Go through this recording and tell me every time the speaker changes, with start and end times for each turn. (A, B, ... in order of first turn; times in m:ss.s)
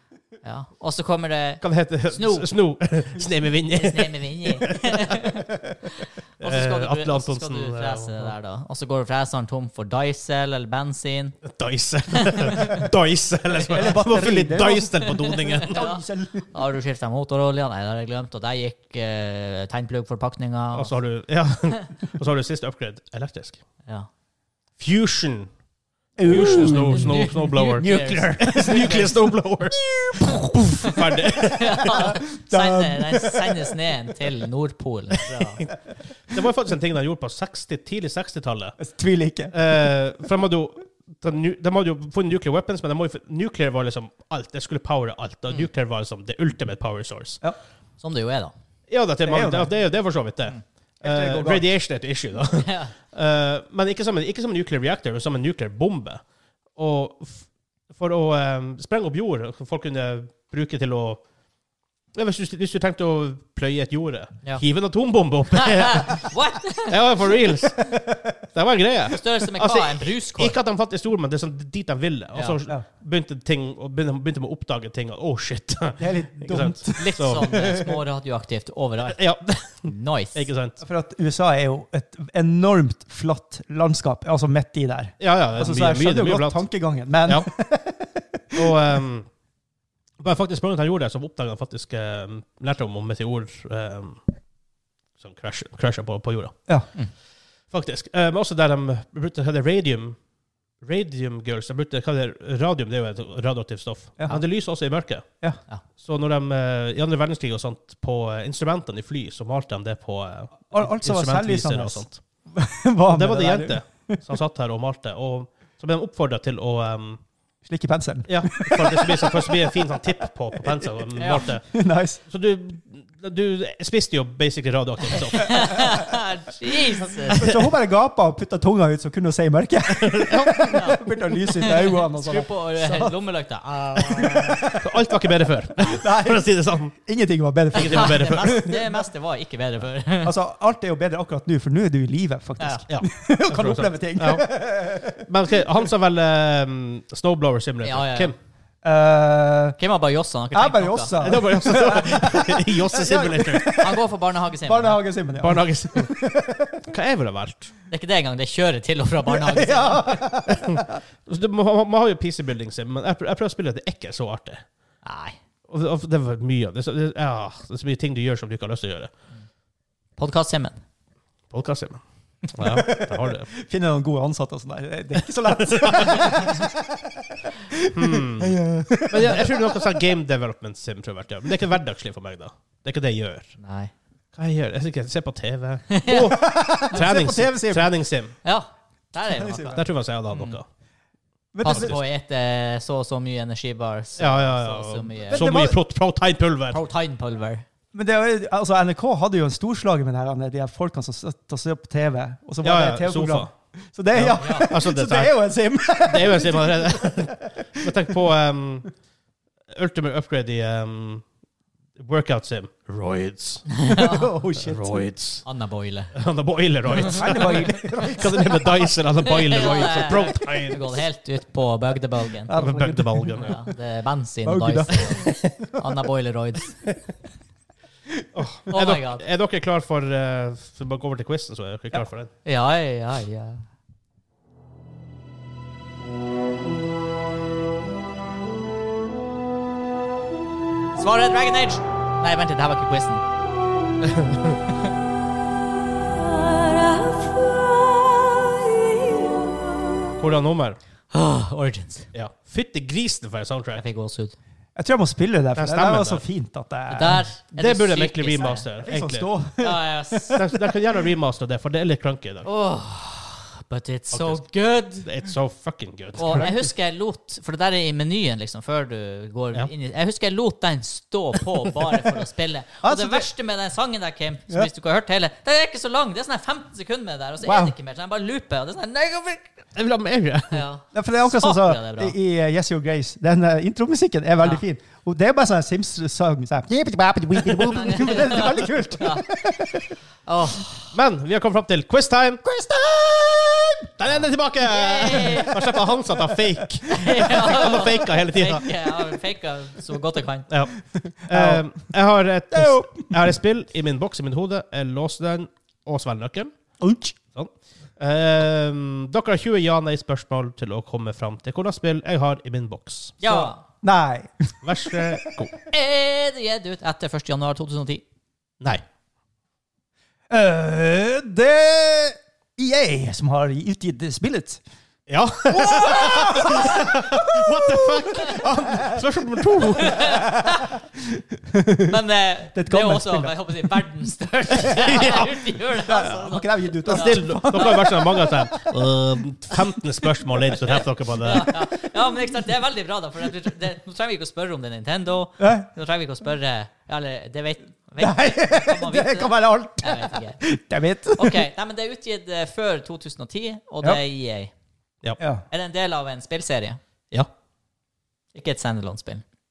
0:00.4-0:02.5 A
0:01.6-0:04.9 B
0:03.8-0:05.5 A
0:06.4-0:11.4 A
0:06.4-0:08.3 B
0:11.4-0:15.8 B
0:12.2-0:12.8 A
0:13.6-0:16.5 C
0:15.7-0:20.9 A
0:20.8-0:23.6 B
0:24.8-0:25.5 B
0:26.2-0:29.0 C
0:26.2-0:32.0 B
0:26.3-0:29.1 A
0:29.7-0:30.7 C
0:31.5-0:35.6 A
0:32.0-0:33.8 C
0:36.3-0:38.8 B
0:38.8-0:39.5 C
0:39.5-0:47.4 B
0:48.0-0:48.5 A
0:48.9-0:56.2 B
0:49.2-0:49.7 C
0:51.0-0:51.7 C
0:52.6-0:52.9 A
0:56.8-1:01.2 B
1:02.2-1:06.3 B
1:05.5-1:07.0 A
1:06.8-1:08.0 B
1:07.9-1:08.4 C
1:08.5-1:17.6 B
1:09.1-1:10.6 A
1:16.0-1:17.7 C
1:17.0-1:19.2 A
1:19.1-1:20.8 B
1:19.8-1:20.5 A
1:20.8-1:28.8 C
1:25.2-1:26.6 B
1:28.5-1:29.3 B
1:30.2-1:34.2 B
1:35.2-1:36.6 B
1:37.7-1:40.2 B
1:40.8-1:45.3 B
1:46.0-1:52.2 B
1:50.7-1:54.2 C
1:53.1-1:57.2 B
1:57.6-2:00.1 C
1:58.3-2:01.7 B
2:00.6-2:02.2 C
2:01.2-2:01.4 A
2:02.3-2:05.8 B
2:05.1-2:07.5 A
2:07.3-2:13.2 C
2:09.9-2:10.8 B
2:10.7-2:11.0 A
2:11.6-2:14.7 A
2:14.0-2:14.9 C
2:14.7-2:16.9 B
2:15.8-2:19.0 C
2:17.7-2:18.6 B
2:17.8-2:20.3 A
2:20.2-2:25.3 C
2:22.9-2:24.5 B
2:25.2-2:28.4 B
2:27.8-2:28.3 A
2:28.8-2:29.8 C
2:29.8-2:31.2 A
2:30.5-2:34.0 C
2:31.2-2:33.8 B
2:33.8-2:35.0 A
2:34.6-2:36.8 C
2:35.4-2:36.2 B
2:36.9-2:37.7 B
2:37.9-2:40.2 A
2:39.3-2:41.0 C
2:40.5-2:44.6 B
2:45.0-2:45.4 A
2:45.7-2:49.1 B
2:50.2-2:50.8 A
2:51.5-2:53.5 B
2:52.6-3:00.0 C
2:55.6-2:56.4 B
2:57.9-2:58.6 B
2:59.1-3:03.6 B
3:03.6-3:03.9 A
3:04.4-3:08.4 B
3:05.9-3:06.4 A
3:06.3-3:07.9 C
3:08.4-3:10.6 A
3:09.3-3:09.9 C
3:09.8-3:10.7 B
3:11.5-3:12.0 C
3:11.6-3:15.5 A
3:11.6-3:12.0 B
3:14.2-3:16.8 B
3:15.3-3:15.8 C
3:16.7-3:17.6 A
3:17.9-3:28.2 C
3:22.6-3:23.5 B
3:24.1-3:25.4 B
3:24.4-3:24.7 A
3:26.0-3:28.9 B
3:29.7-3:31.2 B
3:32.0-3:33.7 B
3:33.8-3:34.3 A
3:34.0-3:35.1 C
3:34.6-3:35.4 B
3:35.4-3:36.1 A
3:36.2-3:41.0 B
3:37.0-3:37.4 A
3:37.0-3:39.0 C
3:39.2-3:42.6 A
3:42.5-3:43.6 C
3:42.5-3:43.6 B
3:43.4-3:46.8 A
3:44.4-3:45.8 C
3:48.4-3:52.3 B
3:48.7-3:49.2 A
3:52.4-3:53.6 A
4:01.0-4:03.2 A
4:04.0-4:04.6 B
4:06.5-4:09.3 A
4:10.2-4:10.8 B
4:11.1-4:12.1 A
4:12.1-4:13.8 B
4:13.8-4:14.4 A
4:14.8-4:17.3 C
4:15.6-4:16.2 B
4:16.9-4:18.7 A
4:17.6-4:19.3 B
4:18.8-4:20.8 C
4:19.6-4:20.4 A
4:20.4-4:22.5 B
4:22.4-4:25.1 A
4:24.1-4:24.4 B
4:25.0-4:26.5 B
4:26.2-4:39.6 A
4:26.2-4:26.7 C
4:32.8-4:33.3 C
4:37.4-4:37.8 C
4:39.8-4:40.6 B
4:40.5-4:42.2 A
4:40.9-4:49.9 C
4:47.5-4:47.7 B
4:47.7-4:49.2 A
4:50.3-4:50.9 A
4:50.9-4:52.4 B
4:52.4-4:53.9 C
4:54.0-4:58.7 B
4:54.6-4:55.5 A
4:55.3-4:57.4 C
4:56.9-5:00.5 A
5:00.5-5:06.5 B
5:00.9-5:01.6 C
5:02.5-5:03.2 C
5:06.8-5:07.2 C
5:07.3-5:13.2 B
5:13.2-5:13.6 A
5:13.2-5:15.5 C
5:14.6-5:15.5 B
5:15.7-5:18.0 A
5:20.3-5:24.6 C
5:25.1-5:30.1 B
5:25.5-5:29.0 C
5:29.6-5:32.0 C
5:29.8-5:30.7 A
5:31.9-5:37.8 A
5:32.5-5:33.8 C
5:34.7-5:35.3 B
5:34.9-5:35.2 C
5:35.7-5:38.7 C
5:36.8-5:41.5 B
5:41.2-5:50.4 A
5:45.4-5:45.7 C
5:48.0-5:51.4 C
5:51.2-5:54.5 A
5:55.2-5:55.4 C
5:55.5-5:56.8 A
5:58.3-5:59.2 A